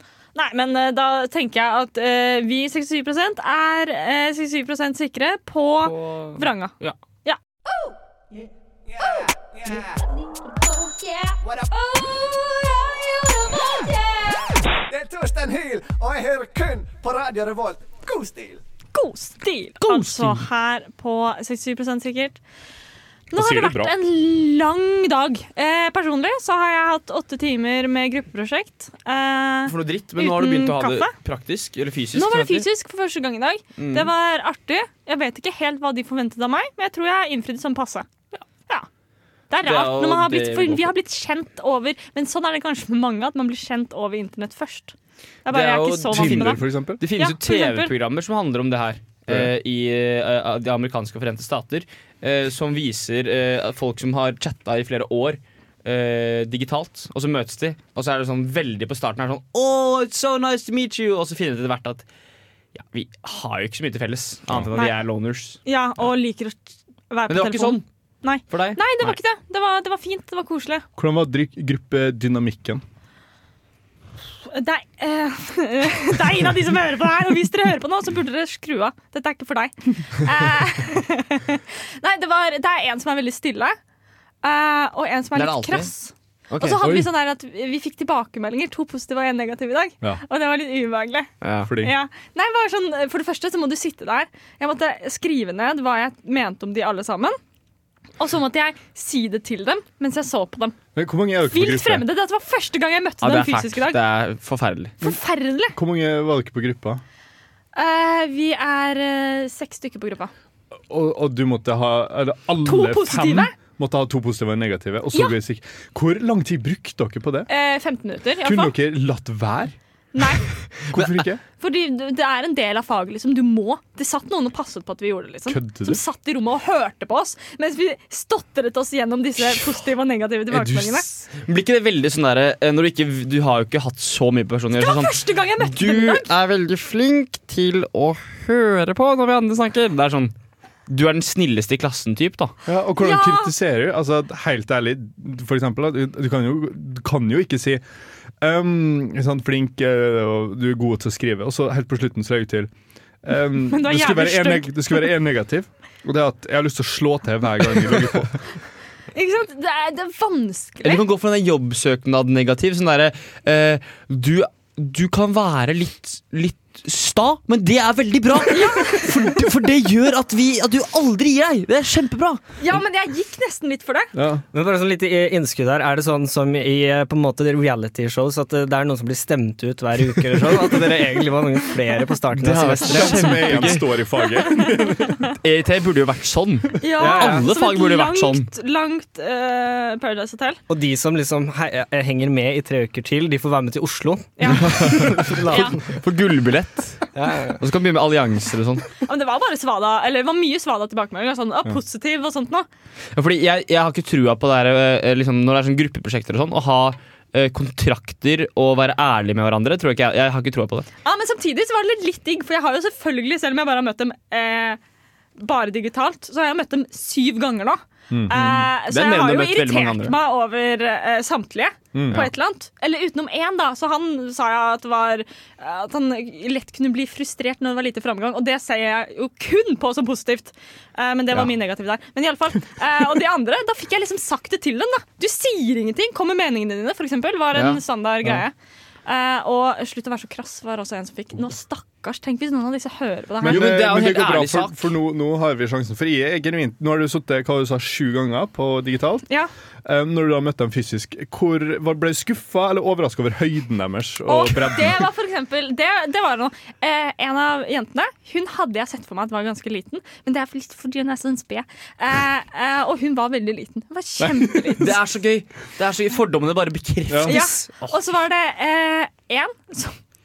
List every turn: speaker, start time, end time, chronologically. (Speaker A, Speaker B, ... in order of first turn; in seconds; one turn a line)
Speaker A: 0.3-7.4
Speaker B: 5.8-7.0
Speaker C: 8.9-10.0
Speaker A: 10.6-14.4
Speaker C: 11.4-12.9
Speaker C: 14.8-18.6
Speaker A: 18.9-22.4
Speaker B: 19.8-20.4
Speaker A: 23.3-31.1
Speaker D: 23.3-23.9
Speaker B: 29.7-32.7
Speaker A: 32.1-38.1
Speaker B: 33.8-34.1
Speaker A: 39.5-44.9
Speaker B: 39.6-40.9
Speaker A: 45.5-46.6
Speaker B: 45.5-62.0
Speaker D: 46.1-47.0
Speaker A: 47.2-47.9
Speaker D: 49.3-49.5
Speaker B: 62.7-65.6
Speaker A: 65.7-70.8
Speaker B: 67.3-67.8
Speaker B: 68.5-69.2
Speaker D: 71.0-72.8
Speaker A: 74.5-83.8
Speaker A: 84.4-97.4
Speaker B: 85.3-85.9
Speaker B: 86.5-87.0
Speaker D: 86.8-87.0
Speaker B: 91.4-91.7
Speaker D: 91.7-91.9
Speaker A: 98.2-100.8
Speaker D: 101.0-102.1
Speaker A: 101.5-104.0
Speaker B: 103.2-104.9
Speaker A: 105.0-105.8
Speaker D: 105.7-107.0
Speaker A: 107.8-110.3
Speaker D: 110.9-117.5
Speaker A: 112.7-113.5
Speaker A: 115.1-115.4
Speaker A: 117.5-118.8
Speaker D: 118.4-119.8
Speaker A: 120.1-120.5
Speaker D: 120.9-121.4
Speaker A: 121.6-131.1
Speaker D: 125.5-126.0
Speaker B: 130.5-140.3
Speaker A: 134.8-136.3
Speaker B: 140.9-142.5
Speaker D: 142.7-147.8
Speaker A: 143.0-143.5
Speaker D: 148.4-152.7
Speaker D: 153.2-158.4
Speaker A: 153.7-155.1
Speaker A: 159.1-161.0
Speaker B: 160.8-172.4
Speaker A: 168.5-169.4
Speaker A: 172.6-174.1
Speaker D: 174.2-174.4
Speaker E: 174.5-183.7
Speaker B: 182.4-183.9
Speaker D: 182.8-185.2
Speaker A: 184.2-185.0
Speaker B: 185.4-188.5
Speaker A: 186.8-190.6
Speaker E: 187.0-187.5
Speaker E: 190.7-195.7
Speaker A: 194.4-195.0
Speaker B: 194.5-197.1
Speaker A: 195.5-195.8
Speaker E: 197.2-197.6
Speaker B: 197.6-198.9
Speaker A: 199.0-202.7
Speaker B: 203.2-210.9
Speaker A: 211.0-214.8
Speaker A: 215.4-238.5
Speaker D: 218.1-218.4
Speaker B: 218.3-220.2
Speaker D: 221.9-222.2
Speaker B: 237.5-237.8
Speaker A: 239.1-243.8
Speaker D: 243.4-249.2
Speaker B: 243.4-244.9
Speaker D: 249.8-255.1
Speaker A: 254.3-265.0
Speaker D: 264.2-264.7
Speaker B: 264.8-268.0
Speaker D: 267.1-267.4
Speaker A: 267.2-270.0